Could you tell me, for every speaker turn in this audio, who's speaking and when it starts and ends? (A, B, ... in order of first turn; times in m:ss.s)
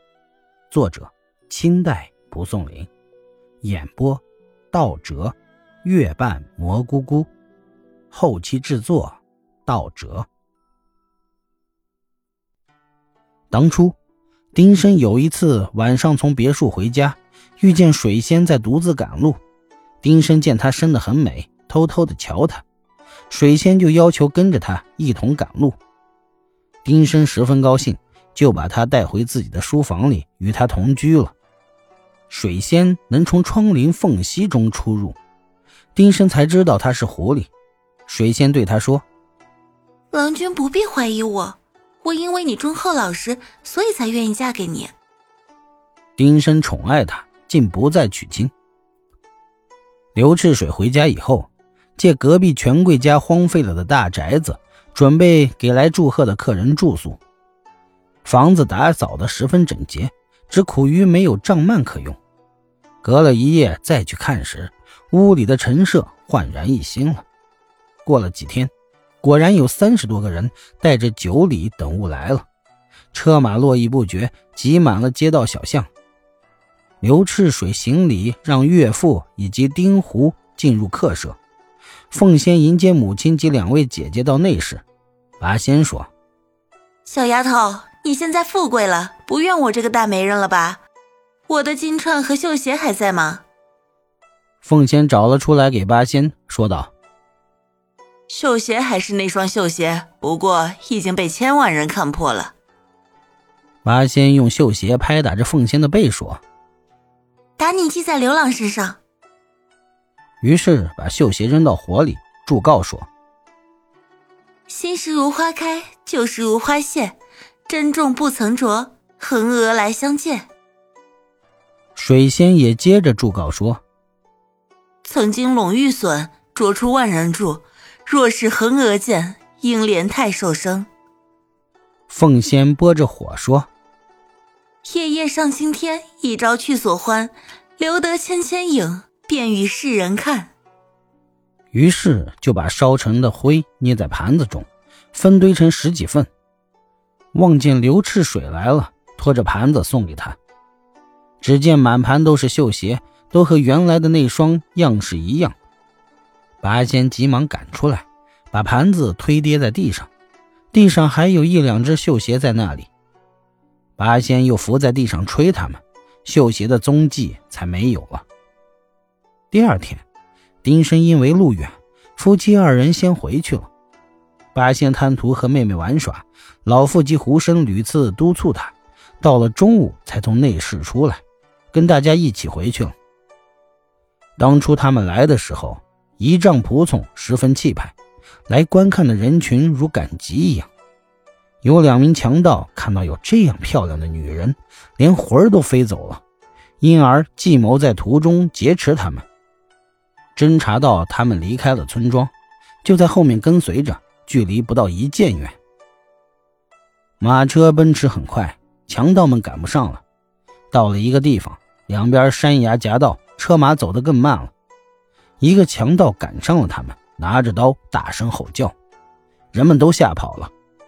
0:00.7-0:02.9 A
0:03.6-0:07.3 A
0:08.1-0:10.3 A
0:13.5-0:14.0 A
0:14.5-0:19.4 A
0:20.0-0:22.6 A
0:23.3-0:25.8 A
0:26.8-0:31.3 A
0:32.3-0:35.2 A
0:35.9-0:37.5 A
0:38.1-0:39.0 A
0:40.1-0:44.9 B
0:46.2-0:48.5 A
0:50.1-0:57.2 A
0:58.2-1:02.2 A
1:03.0-1:07.2 A
1:08.0-1:12.4 A
1:13.1-1:15.9 A
1:17.0-1:21.4 A
1:22.1-1:24.8 A
1:25.4-1:26.1 A
1:27.0-1:30.8 B
1:31.5-1:33.4 B
1:34.6-1:36.9 A
1:38.3-1:42.5 B
1:43.8-1:46.4 A
1:47.6-1:49.0 B
1:50.4-1:53.1 A
1:54.7-1:57.2 B
1:57.7-2:00.5 B
2:01.9-2:03.8 A
2:05.0-2:10.9 B
2:12.1-2:13.7 A
2:14.8-2:20.5 B
2:21.7-2:26.3 A
2:27.3-2:30.4 A
2:31.4-2:35.6 A
2:36.6-2:40.1 A
2:40.7-2:42.9 A
2:44.0-2:48.2 A
2:49.5-2:50.0 A
2:50.6-2:53.7 A
2:54.5-3:02.9 A
3:04.4-3:07.9 A
3:08.5-3:10.7 A
3:11.6-3:16.2 A
3:16.8-3:19.2 A
3:20.3-3:22.3 A
3:22.8-3:25.6 A
3:27.2-3:30.0 A
3:30.7-3:34.5 A
3:35.4-3:38.7 A
3:39.5-3:40.5 A